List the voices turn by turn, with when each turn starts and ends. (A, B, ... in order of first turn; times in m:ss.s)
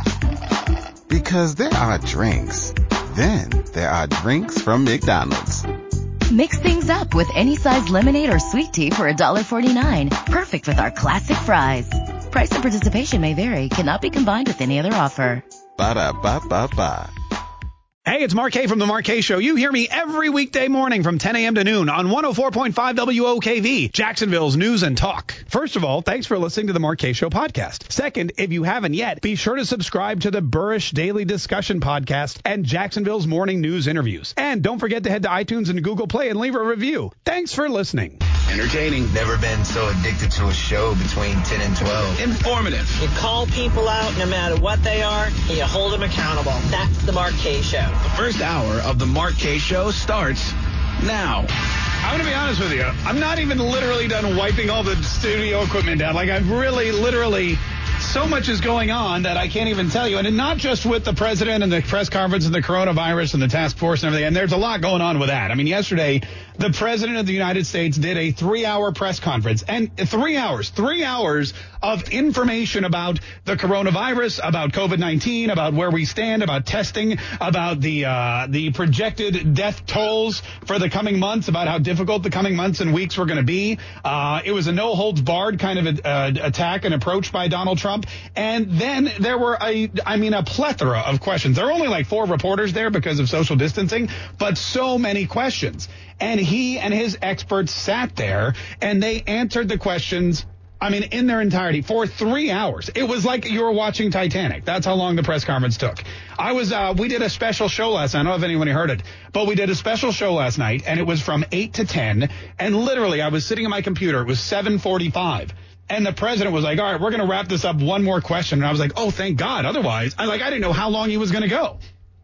0:01.1-0:05.7 A
0:06.3-0:15.4 B
0:15.8-0:17.1 A
0:18.0-0:38.2 C
0:38.5-0:39.1 D
0:39.1-0:42.2 E
0:42.2-0:43.0 D
0:43.0-0:48.0 F
0:48.0-0:51.5 D
0:52.0-2:01.8 C